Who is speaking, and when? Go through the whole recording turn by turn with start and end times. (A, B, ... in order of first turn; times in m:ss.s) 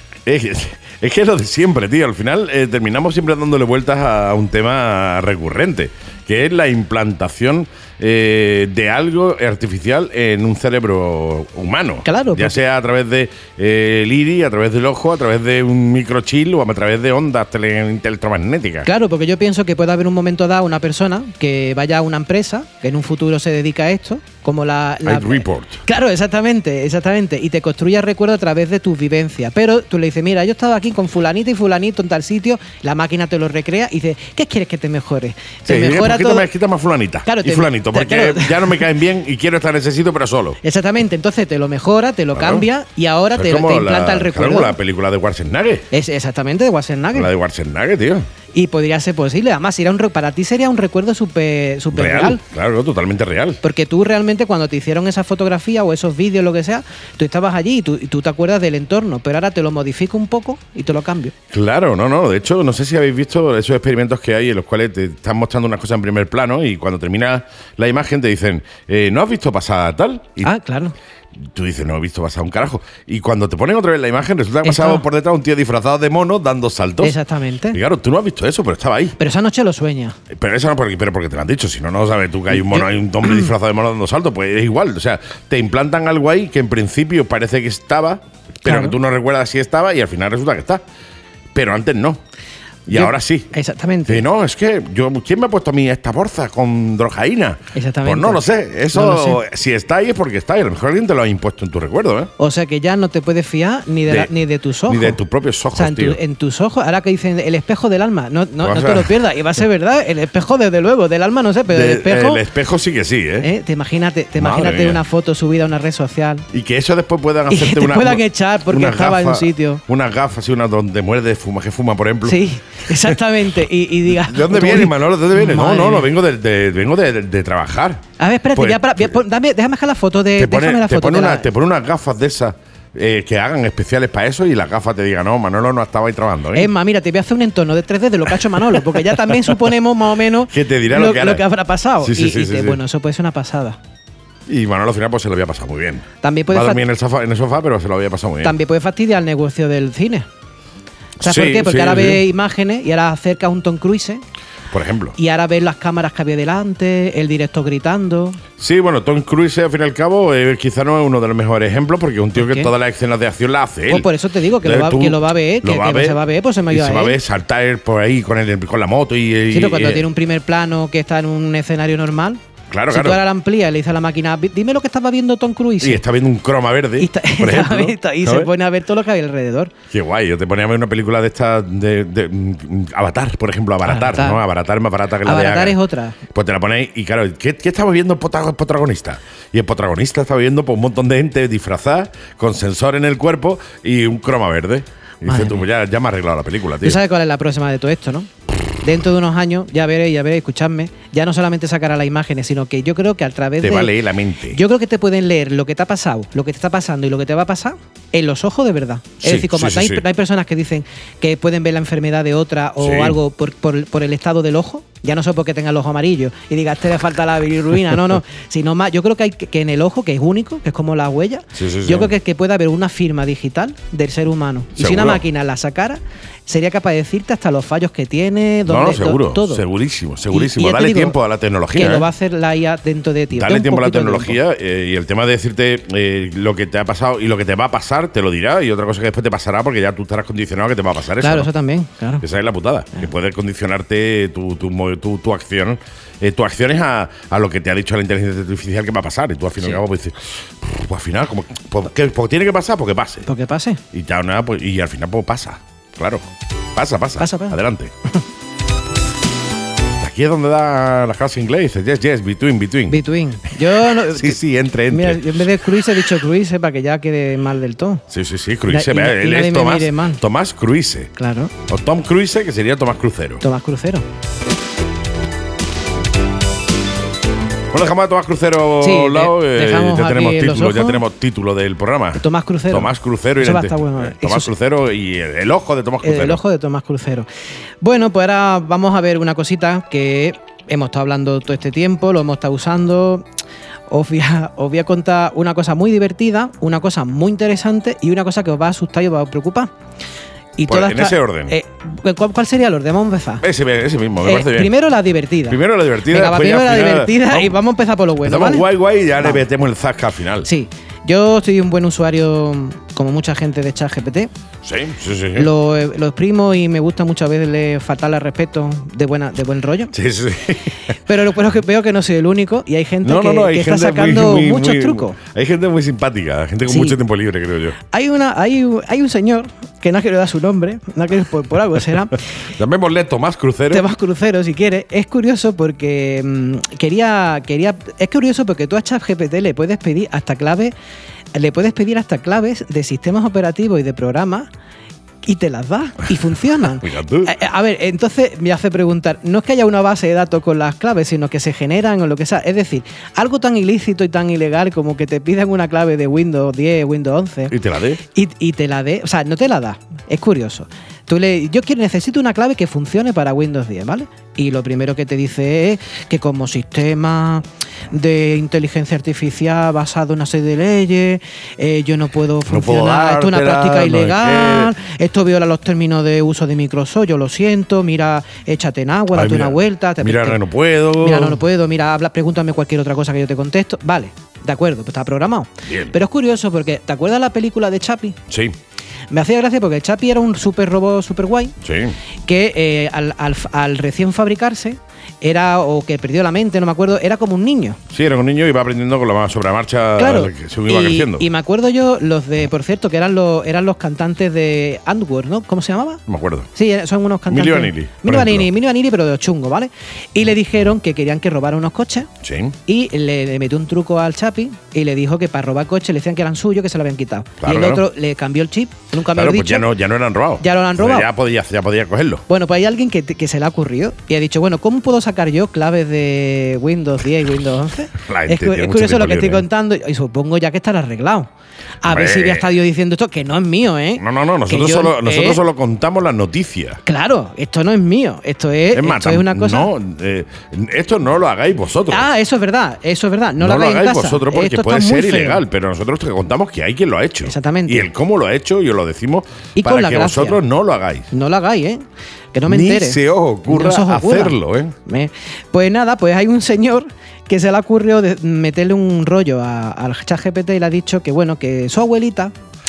0:00.3-0:18.9 A
0:12.0-0:12.6 B
0:18.8-0:36.5 B
0:25.0-0:25.8 A
0:35.7-0:40.6 A
0:37.3-0:38.8 B
0:40.6-0:44.8 B
0:42.4-0:42.7 A
0:43.3-0:45.9 A
0:45.9-0:47.3 B
0:47.1-0:48.3 A
0:48.5-0:52.4 B
0:51.9-0:53.6 A
0:53.6-1:01.4 B
1:01.5-1:10.5 A
1:10.4-1:11.0 B
1:11.4-1:17.2 A
1:14.6-1:15.0 B
1:17.0-1:17.8 B
1:17.7-1:19.2 A
1:19.2-1:20.2 B
1:20.3-1:30.8 A
1:22.5-1:23.5 B
1:28.6-1:29.0 B
1:31.5-1:32.2 A
1:32.9-1:33.5 A
1:32.9-1:34.2 B
1:34.1-1:42.3 A
1:37.8-1:39.4 B
1:42.4-1:45.2 B
1:44.9-1:46.2 A
1:45.8-1:52.4 B
1:48.6-1:49.2 A
1:51.7-1:53.5 A
1:53.4-1:56.5 B
1:54.4-1:55.0 A
1:56.5-2:02.4 A
1:57.5-1:59.8 B
2:02.2-2:06.1 B
2:02.9-2:03.2 A
2:04.1-2:08.0 A
2:08.2-2:11.5 B
2:08.6-2:09.1 A
2:10.4-2:16.7 A
2:16.5-2:23.8 B
2:20.5-2:21.4 A
2:22.0-2:22.8 A
2:24.5-2:28.6 A
2:26.2-2:26.8 B
2:28.4-2:30.3 B
2:31.2-2:34.2 B
2:31.2-2:32.2 A
2:34.7-2:35.2 A
2:35.2-2:38.4 B
2:38.6-2:44.1 A
2:42.4-2:42.7 B
2:43.9-2:47.2 B
2:44.6-2:50.1 A
2:49.5-2:56.0 B
2:52.7-2:53.2 A
2:55.8-2:58.5 A
2:57.0-2:59.7 B
2:59.9-3:05.8 A
3:03.8-3:04.4 B
3:05.2-3:06.2 B
3:06.3-3:17.0 A
3:15.3-3:15.6 B
3:16.8-3:18.3 B
3:18.8-3:23.9 B
3:23.6-3:24.6 A
3:24.5-3:49.6 B
3:29.2-3:30.0 A
3:32.8-3:33.2 A
3:41.6-3:42.1 A
3:44.8-3:45.2 A
3:48.7-3:52.1 A
3:50.3-3:51.2 B
3:51.7-3:54.4 B
3:53.3-4:01.5 A
4:01.2-4:02.2 B
4:02.2-4:13.3 A
4:13.3-4:13.8 B
4:13.9-4:16.2 A
4:16.8-4:17.9 A
4:17.2-4:17.6 B
4:20.0-4:23.0 A
4:22.9-4:28.0 B
4:23.8-4:25.5 A
4:28.1-4:31.1 A
4:28.7-4:30.2 B
4:31.2-4:31.5 B
4:31.7-4:33.4 A
4:33.4-4:34.1 B
4:37.7-4:46.4 A
4:38.8-4:41.0 B
4:42.2-4:44.5 B
4:46.0-4:47.3 B
4:47.8-4:53.2 B
4:53.9-4:59.7 B
5:00.6-5:03.4 B
5:00.7-5:01.6 A
5:03.4-5:04.7 A
5:04.2-5:08.7 B
5:05.5-5:07.6 A
5:08.2-5:10.5 A
5:10.4-5:14.3 B
5:14.6-5:15.5 A
5:15.4-5:19.9 B
5:19.9-5:20.8 A
5:21.1-5:25.2 B
5:23.0-5:27.8 A
5:26.7-5:27.0 B
5:27.9-5:32.2 B
5:32.6-5:33.9 A
5:33.7-5:40.7 B
5:41.3-5:44.5 B
5:45.2-5:57.5 B
5:46.8-5:47.3 A
5:57.5-5:58.0 A
5:58.1-6:20.4 B
6:12.5-6:14.7 A
6:19.1-6:21.4 A
6:21.0-6:28.2 B
6:25.7-6:25.9 A
6:28.3-6:28.6 A
6:29.1-6:31.6 B
6:31.6-6:32.0 A
6:32.3-6:37.8 B
6:37.9-6:41.3 A
6:40.0-6:46.0 B
6:46.1-6:46.5 A
6:46.6-6:52.1 B
6:47.3-6:48.5 A
6:52.2-6:52.6 A
6:52.7-6:59.7 B
6:57.4-6:57.8 A
6:59.1-7:02.2 A
7:00.4-7:01.1 B
7:02.3-7:11.3 B
7:07.9-7:09.4 A
7:11.8-7:15.4 B
7:11.9-7:12.5 A
7:14.0-7:16.8 A
7:16.9-7:19.7 B
7:18.7-7:22.1 A
7:21.9-7:25.4 B
7:23.4-7:31.1 A
7:27.2-7:27.9 B
7:29.6-7:30.4 B
7:31.1-7:42.3 B
7:32.5-7:34.8 A